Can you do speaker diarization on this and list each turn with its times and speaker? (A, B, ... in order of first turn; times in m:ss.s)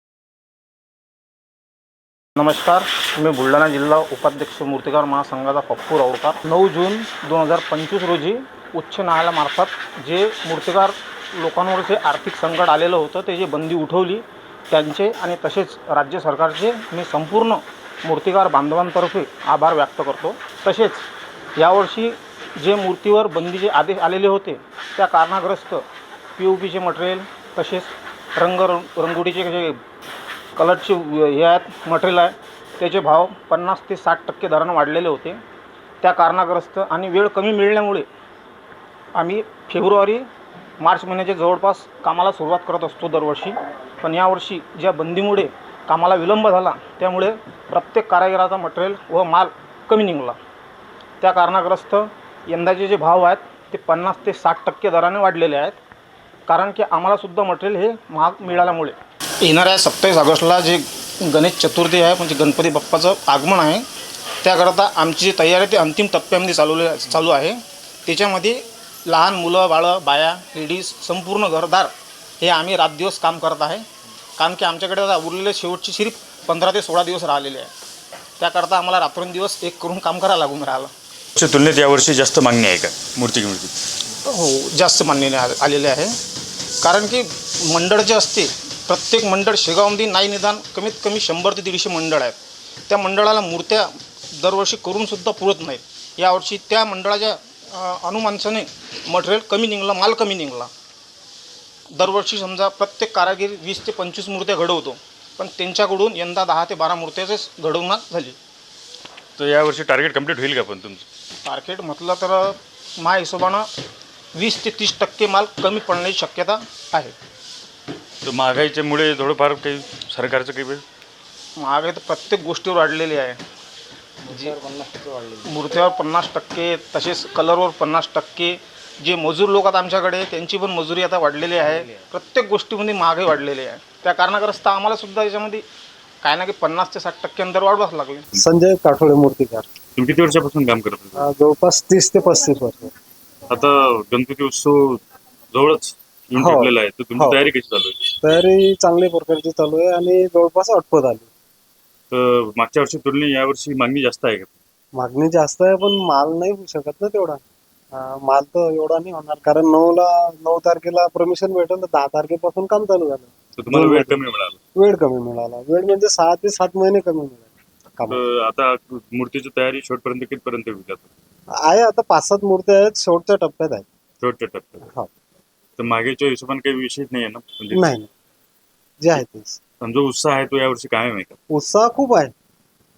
0:02.4-0:21.0 A
0:21.6-0:25.8 A
0:26.4-0:29.8 A
0:30.6-0:35.4 A
0:36.0-0:38.1 A
0:39.2-0:40.3 A
0:40.8-0:50.4 A
0:51.2-0:55.8 A
0:56.5-1:03.9 A
1:04.4-1:13.9 A
1:14.4-1:17.7 A
1:18.4-1:20.9 A
1:21.4-1:23.8 B
1:24.2-1:26.1 A
1:26.8-1:32.4 A
1:32.9-1:40.7 A
1:41.9-1:48.4 A
1:49.4-1:51.1 B
1:51.4-1:53.7 A
1:54.4-1:57.2 A
1:58.2-2:00.8 B
2:01.6-2:03.4 A
2:04.3-2:15.6 A
2:16.2-2:18.3 A
2:18.4-2:19.7 C
2:20.0-2:21.3 B
2:21.2-2:22.9 C
2:23.5-2:25.0 B
2:25.5-2:28.1 B
2:26.4-2:27.5 C
2:28.2-2:31.3 C
2:32.1-2:34.5 B
2:35.0-2:37.4 C
2:37.9-2:44.2 C
2:43.6-2:44.6 B
2:44.8-2:48.2 C
2:48.1-2:51.1 B
2:51.6-2:53.8 C
2:54.2-2:54.9 B
2:55.8-2:57.9 B
2:57.7-2:58.1 C
2:59.0-2:59.6 C
2:59.8-3:01.4 B
3:01.5-3:02.3 C